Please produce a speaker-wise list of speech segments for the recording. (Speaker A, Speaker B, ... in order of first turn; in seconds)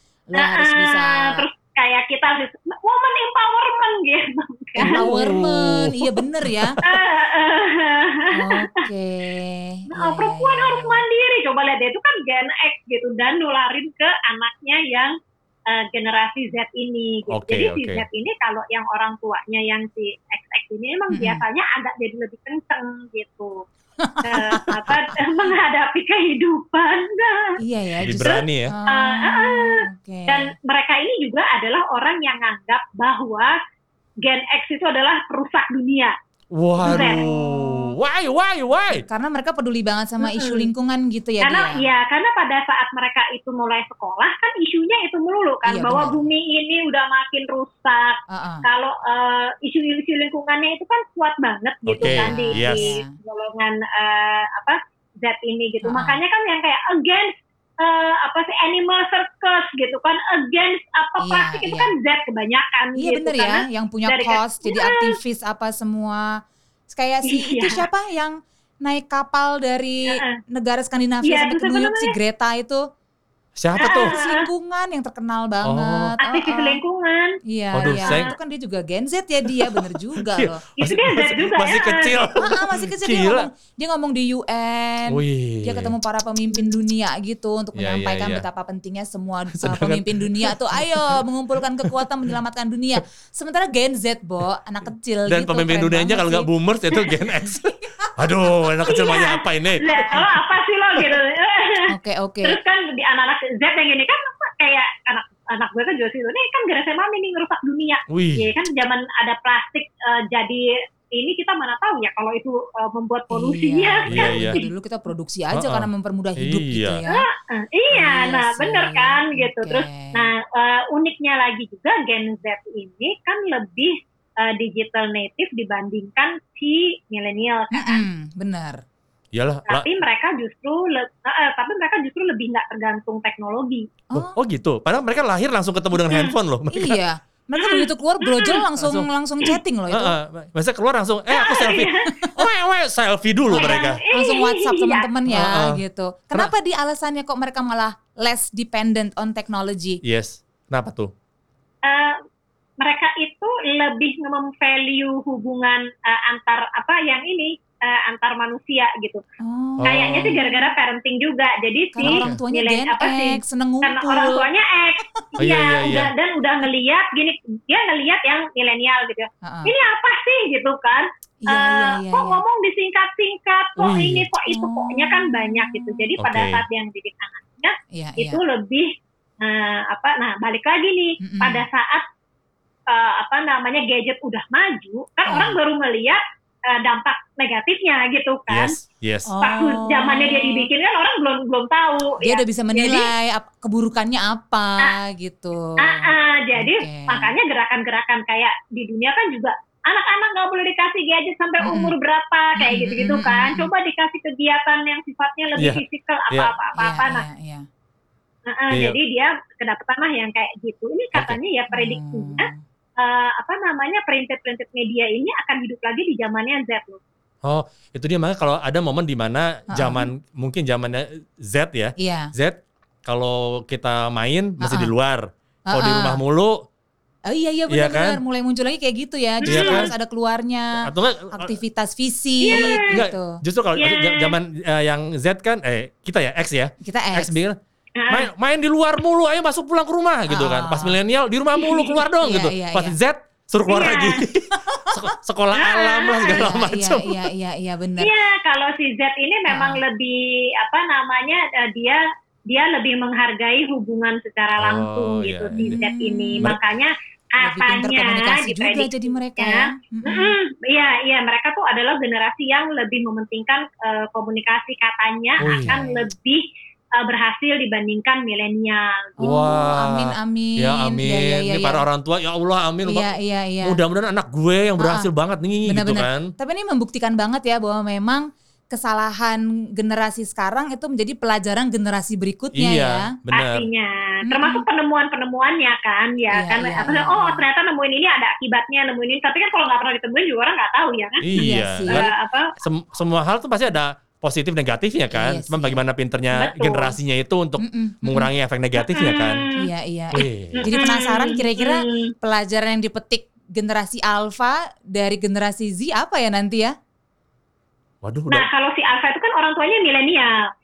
Speaker A: 0.3-1.4, 4.8-6.8, 8.3-11.0, 21.1-21.4, 24.0-25.0, 27.6-30.5, 36.8-37.9, 38.9-41.8, 45.6-46.2, 48.3-48.6, 52.0-53.1, 55.8-56.2, 61.2-61.9, 63.0-72.9, 73.8-76.8, 77.5-80.6, 82.4-96.5, 99.9-100.2, 101.9-102.6, 113.3-117.2, 117.9-120.3, 127.7-128.8, 134.1-134.3, 136.7-140.1, 143.5-150.0, 159.4-160.7, 161.9-164.5, 169.4-169.7, 171.4-172.4, 174.5-176.1, 177.9-178.4, 181.2-181.6, 185.3-185.6, 189.3-190.7, 192.2-197.3, 201.6-201.9, 202.6-203.7, 206.8-207.7, 211.7-212.6, 219.7-220.1, 222.0-222.3, 224.6-224.9, 225.7-226.2, 227.3-233.4, 236.8-237.4, 240.3-241.0, 242.2-242.9, 244.7-245.0, 246.2-248.1, 249.5-249.8, 255.6-256.5, 257.4-260.4, 265.4-266.1, 269.2-271.8, 272.8-273.8, 274.8-275.1, 275.6-283.1, 284.3-284.6, 286.3-287.4, 291.3-292.1, 295.1-295.8, 297.6-298.3, 299.6-306.7
Speaker B: 0.4-5.3, 6.8-8.8, 9.9-15.1, 15.7-23.6, 24.2-27.6, 28.1-33.6, 34.2-36.1, 36.8-37.2, 40.2-40.7, 41.4-65.1, 67.2-67.8, 70.1-70.4, 71.2-72.1, 73.8-74.5, 76.2-78.3, 80.8-82.3, 98.8-101.9, 102.4-114.7, 117.1-128.0, 129.7-133.9, 135.9-136.3, 137.6-138.6, 141.3-142.1, 143.5-145.1, 151.8-152.2, 152.8-159.2, 159.8-182.0, 182.9-188.8, 189.4-193.1, 195.8-207.2, 208.5-217.0, 229.4-229.9, 232.4-233.0, 233.8-234.3, 238.0-238.3, 241.5-242.0, 243.7-244.2, 245.5-246.5, 248.0-266.4, 266.9-269.6, 283.3-291.2, 291.9-292.5, 296.3-296.9, 298.8-299.7, 300.5-302.1, 308.3-310.4
Speaker C: 4.8-7.0, 17.3-18.0, 28.0-28.7, 36.5-39.0, 51.9-52.9, 73.6-74.1, 75.6-76.2, 77.7-78.3, 79.5-83.5, 85.1-85.9, 87.8-88.4, 89.5-91.2, 91.8-92.1, 95.3-100.4, 108.1-108.5, 114.1-114.6, 115.5-117.0, 129.3-129.9, 134.1-137.0, 138.8-139.1, 139.9-144.0, 145.3-145.8, 150.0-151.1, 159.8-160.4, 162.0-162.4, 165.4-166.1, 173.8-174.3, 176.2-176.6, 188.5-189.3, 205.6-206.5, 208.7-209.0, 217.4-226.7, 227.7-228.2, 229.4-229.9, 230.8-231.6, 232.5-237.6, 238.1-247.2, 254.6-255.8, 265.4-265.8, 269.2-273.1, 273.6-276.3, 282.5-283.6, 291.2-299.4, 300.1-300.8, 308.0-308.5